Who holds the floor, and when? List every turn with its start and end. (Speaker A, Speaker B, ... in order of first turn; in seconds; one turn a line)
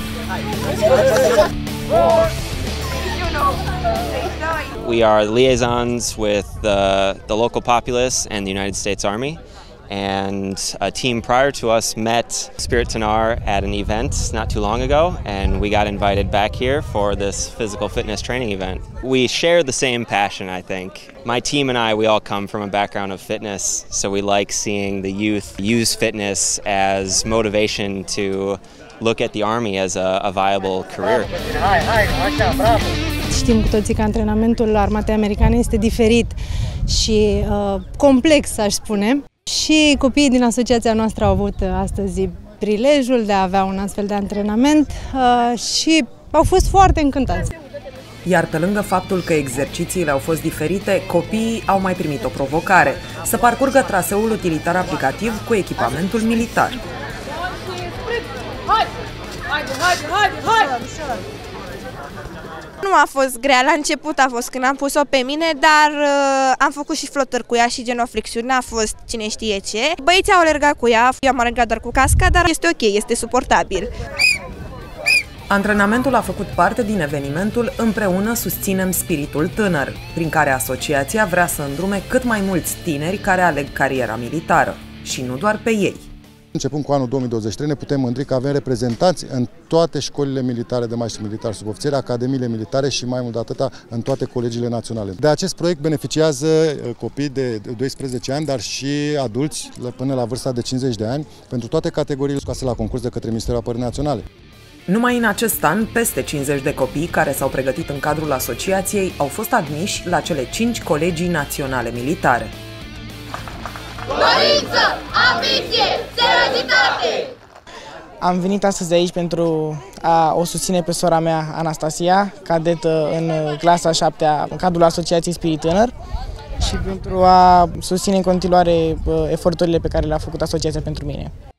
Speaker A: 4.8-31.3
Speaker B: 33.3-36.4
Speaker B: 36.9-47.5
Speaker C: 48.2-56.8
Speaker D: 62.8-73.9
Speaker C: 75.5-86.1
Speaker E: 86.5-104.2
Speaker C: 104.9-112.5
Speaker F: 118.2-125.9
Speaker F: 126.6-131.3